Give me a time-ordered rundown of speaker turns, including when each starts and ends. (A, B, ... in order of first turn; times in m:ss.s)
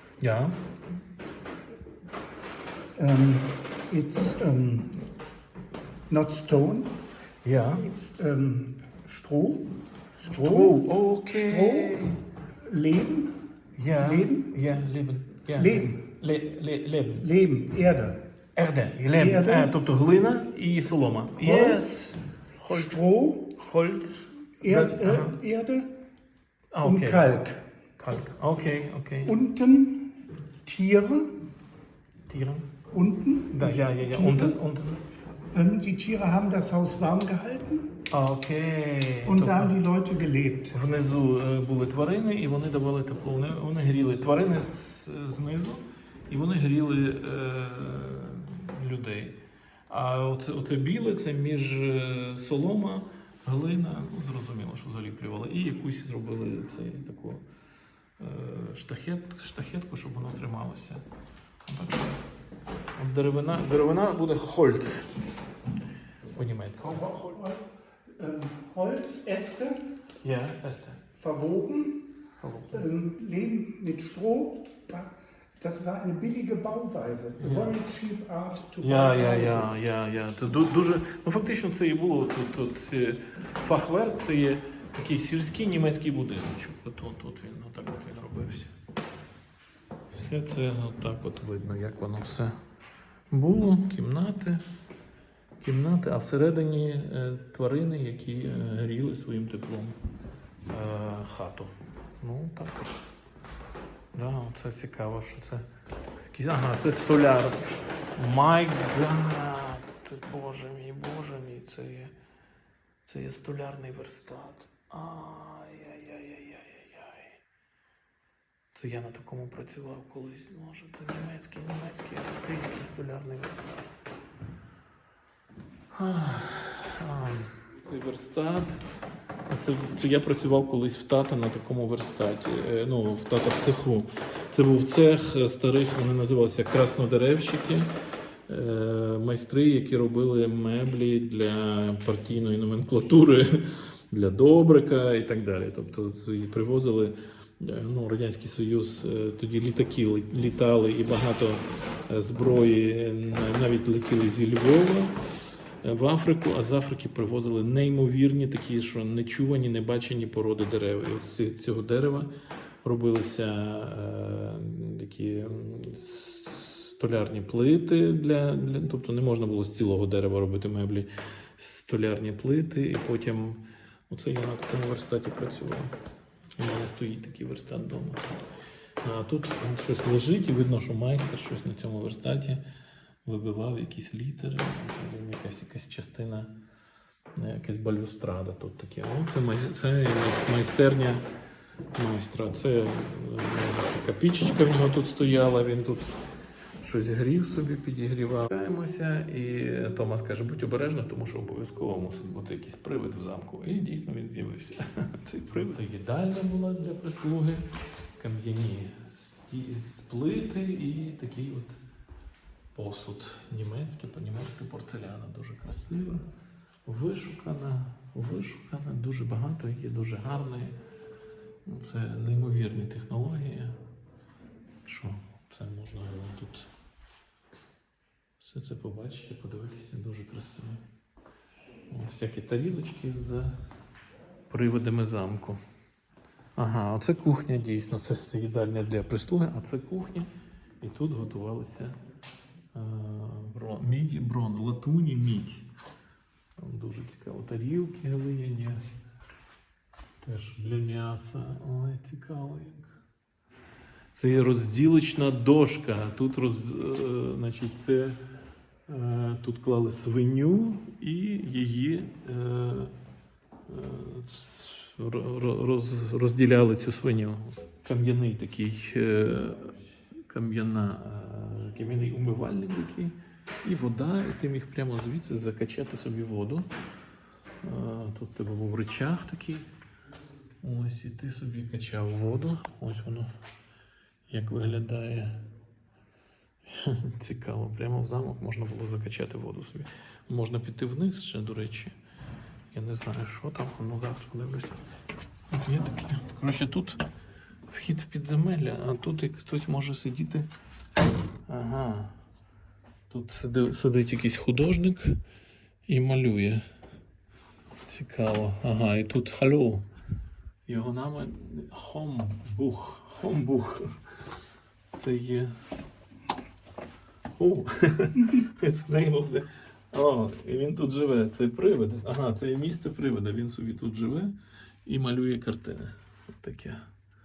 0:00.2-0:00.6 A
0:03.0-0:05.1 B
0:06.1-0:07.0 B
0:07.4-0:07.9 A
0:07.7-0:12.2 B
0:10.2-0:12.2 A
0:12.7-0:14.5 B
0:13.8-0:17.3 A
0:15.6-0:16.0 B
0:17.2-0:18.2 B
0:18.6-0:23.0 A
0:19.2-0:19.7 B
0:21.4-0:21.9 B
0:22.7-0:23.5 B
0:23.6-0:25.4 A
0:24.6-0:25.9 B
0:26.7-0:27.4 A
0:26.8-0:27.6 B
0:28.0-0:29.4 A
0:29.2-0:31.3 B
0:32.3-0:32.7 A
0:32.9-0:34.6 B
0:33.5-0:35.0 A
0:35.5-0:37.9 B
0:38.1-0:39.8 A
0:39.2-0:40.8 B
0:40.7-0:57.4 A
0:58.2-1:01.0 A
1:01.6-1:02.2 A
1:03.0-1:05.2 A
1:06.3-1:07.4 A
1:06.8-1:09.9 B
1:10.2-1:11.0 A
1:11.2-1:12.1 B
1:12.4-1:12.9 A
1:12.7-1:19.8 B
1:17.4-1:17.8 A
1:18.8-1:28.7 A
1:30.1-1:32.6 A
1:33.3-1:34.6 A
1:35.6-1:40.0 A
1:40.6-1:43.0 A
1:44.1-1:45.7 A
1:46.3-1:52.1 A
1:53.1-1:57.4 A
1:58.7-2:03.9 A
2:05.9-2:08.8 A
2:09.5-2:17.9 A
2:18.5-2:35.2 A
2:35.8-2:42.3 A
2:42.8-2:55.9 A
2:56.6-2:58.3 A
2:59.0-3:02.6 A
3:03.2-3:06.5 A
3:07.4-3:11.2 A
3:12.0-3:16.2 A
3:16.8-3:31.8 A
3:32.8-3:36.3 A
3:36.8-3:40.8 A
3:41.6-3:43.8 A
3:44.8-3:46.7 A
3:48.4-3:50.8 A
3:51.9-3:53.6 A
3:54.5-3:55.6 A
3:56.6-4:00.3 A
4:00.8-4:02.0 A
4:02.7-4:05.7 A
4:06.6-4:08.8 A
4:10.2-4:13.0 A
4:14.2-4:18.2 A
4:18.9-4:22.9 A
4:23.7-4:36.7 A
4:37.6-4:39.7 A
4:40.6-4:43.3 A
4:44.3-4:45.5 A
4:46.6-4:51.9 A
4:52.7-4:54.8 A
4:55.5-4:57.0 A
4:57.7-5:00.5 A
5:01.5-5:02.2 A
5:03.1-5:05.2 A
5:05.9-5:06.6 A
5:07.9-5:09.9 A
5:10.7-5:14.0 A
5:14.9-5:15.6 A
5:17.4-5:26.9 A